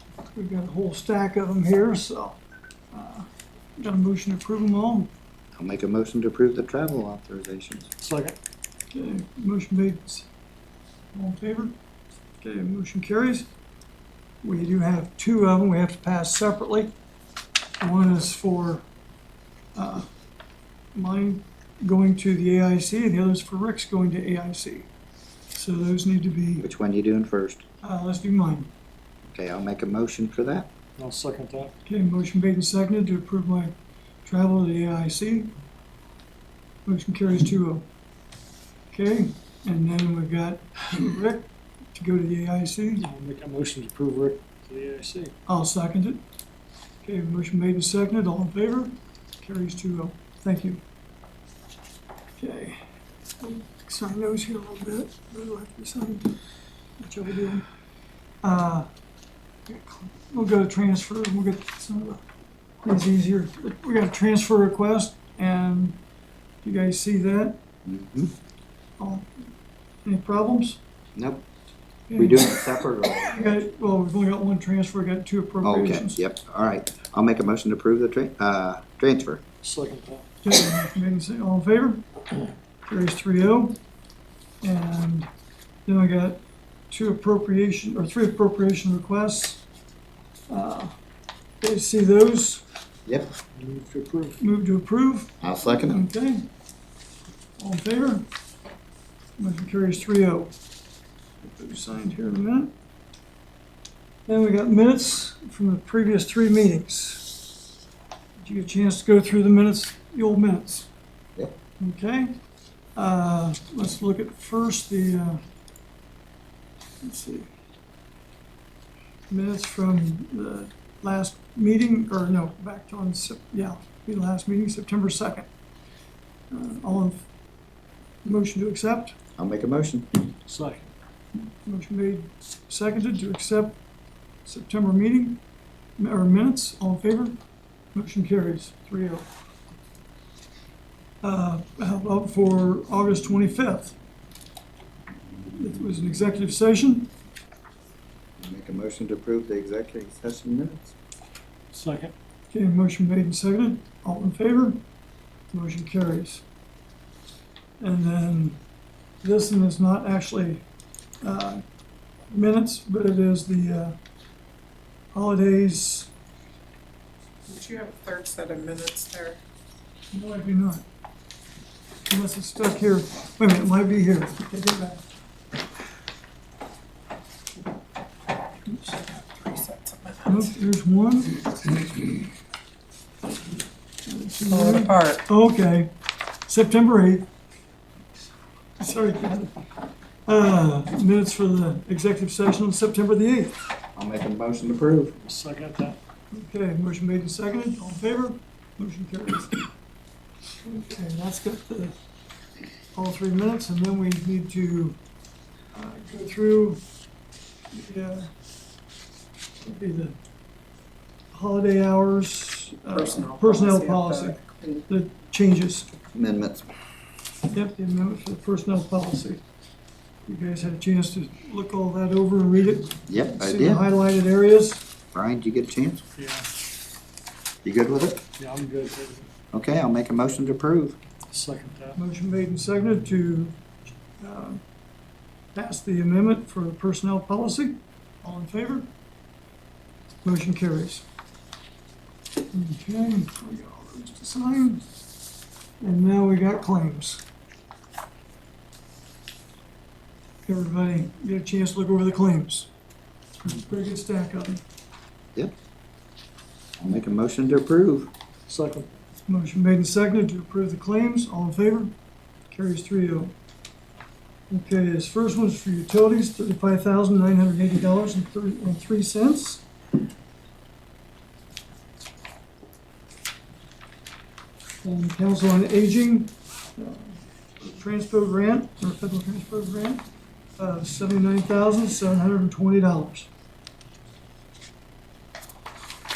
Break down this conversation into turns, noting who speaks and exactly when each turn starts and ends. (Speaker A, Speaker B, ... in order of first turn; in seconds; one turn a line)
Speaker A: 0.3-5.1
Speaker B: 5.5-7.9
Speaker C: 8.0-8.4
Speaker A: 8.9-10.3
Speaker A: 11.1-11.7
Speaker A: 12.4-13.5
Speaker A: 14.4-16.9
Speaker A: 17.8-18.9
Speaker A: 19.8-20.1
Speaker A: 20.9-24.9
Speaker A: 25.5-26.7
Speaker B: 26.6-27.6
Speaker A: 27.8-28.7
Speaker B: 29.3-30.7
Speaker C: 31.0-31.7
Speaker A: 31.9-35.5
Speaker A: 36.8-37.9
Speaker A: 38.9-43.0
Speaker C: 43.0-45.3
Speaker A: 45.5-46.2
Speaker A: 47.0-50.8
Speaker A: 52.4-52.8
Speaker A: 53.4-56.4
Speaker A: 57.0-57.6
Speaker A: 58.4-58.9
Speaker A: 59.6-62.2
Speaker A: 62.8-66.0
Speaker A: 66.6-67.6
Speaker B: 67.8-68.3
Speaker A: 69.0-69.5
Speaker A: 70.0-70.8
Speaker B: 71.2-71.4
Speaker A: 72.1-76.2
Speaker B: 72.1-73.6
Speaker B: 75.6-79.4
Speaker C: 79.6-80.3
Speaker A: 80.4-82.0
Speaker A: 82.9-83.8
Speaker A: 84.6-85.3
Speaker A: 85.9-89.6
Speaker A: 90.5-90.9
Speaker A: 91.6-92.6
Speaker B: 93.1-93.3
Speaker C: 93.5-94.4
Speaker A: 94.4-96.5
Speaker B: 95.4-96.0
Speaker A: 97.6-98.3
Speaker A: 99.4-100.5
Speaker A: 101.4-102.7
Speaker A: 104.3-107.4
Speaker A: 108.4-110.9
Speaker A: 111.8-112.3
Speaker A: 113.0-115.4
Speaker A: 117.0-117.5
Speaker A: 119.3-125.5
Speaker A: 126.5-127.2
Speaker A: 128.2-129.2
Speaker B: 129.4-130.1
Speaker C: 130.4-130.9
Speaker A: 131.4-133.8
Speaker A: 134.4-135.4
Speaker A: 136.0-137.4
Speaker A: 137.9-139.2
Speaker A: 141.2-143.9
Speaker A: 145.5-147.1
Speaker B: 148.4-150.9
Speaker C: 151.7-152.1
Speaker A: 152.5-154.8
Speaker A: 155.5-156.4
Speaker A: 157.8-158.6
Speaker A: 159.2-160.6
Speaker A: 161.2-161.6
Speaker A: 162.3-164.0
Speaker A: 165.1-166.1
Speaker D: 167.5-169.4
Speaker A: 170.1-170.8
Speaker A: 172.1-175.0
Speaker D: 179.0-180.4
Speaker A: 180.2-181.5
Speaker A: 184.1-185.9
Speaker D: 184.5-185.2
Speaker A: 186.5-187.2
Speaker A: 188.8-189.7
Speaker A: 190.2-193.6
Speaker B: 193.9-195.2
Speaker C: 195.2-196.0
Speaker A: 196.3-199.6
Speaker A: 200.6-202.0
Speaker A: 202.9-205.0
Speaker A: 205.7-206.8
Speaker A: 207.7-208.3
Speaker A: 209.6-210.2
Speaker A: 211.3-215.9
Speaker D: 212.9-214.8
Speaker B: 216.1-216.7
Speaker A: 217.4-219.4
Speaker A: 220.2-224.8
Speaker B: 223.1-223.8
Speaker B: 225.1-226.0
Speaker C: 226.2-226.4
Speaker B: 227.6-228.2
Speaker C: 228.4-229.3
Speaker B: 229.5-231.0
Speaker C: 231.3-232.0
Speaker A: 231.9-233.6
Speaker A: 234.2-234.6
Speaker A: 235.5-238.9
Speaker A: 240.2-241.0
Speaker A: 242.5-244.8
Speaker A: 245.8-247.2
Speaker A: 250.4-252.7
Speaker A: 253.4-254.6
Speaker B: 256.8-258.1
Speaker C: 258.5-259.0
Speaker A: 259.2-261.9
Speaker A: 262.5-263.3
Speaker A: 264.5-269.6
Speaker A: 274.8-280.1
Speaker A: 280.6-283.3